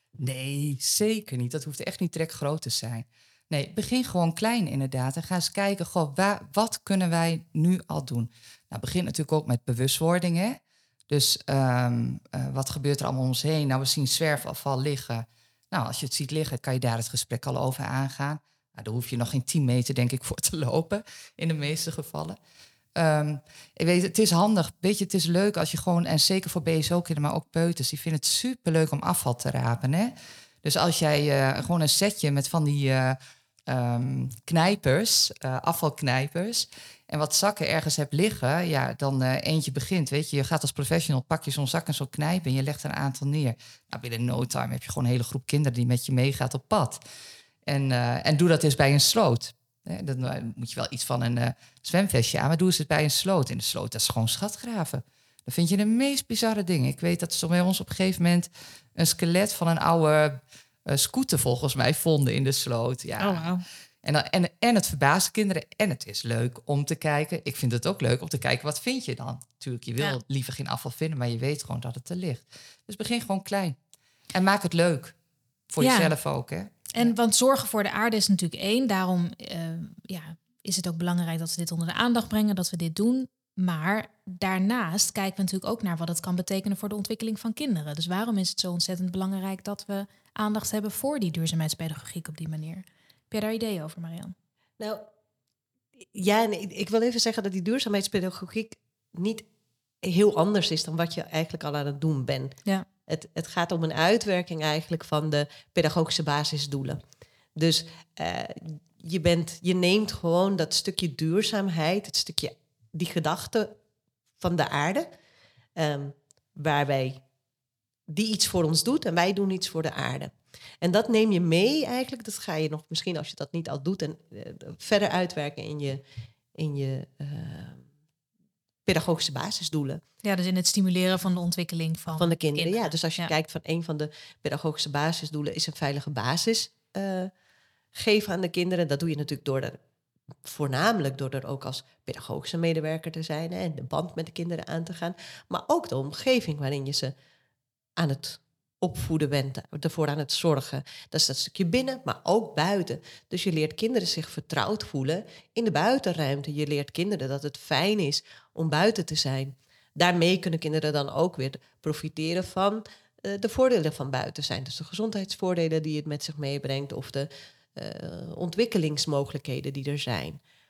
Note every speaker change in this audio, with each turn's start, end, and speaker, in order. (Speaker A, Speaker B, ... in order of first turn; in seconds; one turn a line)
Speaker A: 0.2-22.4
Speaker A: 22.9-47.0
Speaker A: 47.6-63.5
Speaker B: 63.2-63.6
Speaker A: 64.0-73.8
Speaker A: 74.3-75.2
Speaker A: 75.7-77.1
Speaker B: 75.8-76.1
Speaker B: 76.9-94.3
Speaker C: 94.8-95.1
Speaker C: 96.1-99.4
Speaker C: 100.0-107.0
Speaker C: 107.5-113.8
Speaker C: 114.4-115.1
Speaker C: 115.8-117.2
Speaker C: 118.1-126.0
Speaker C: 126.5-127.8
Speaker C: 128.8-130.0
Speaker B: 130.2-133.3
Speaker C: 132.2-137.3
Speaker C: 137.9-139.8
Speaker C: 140.4-147.1
Speaker C: 148.0-170.4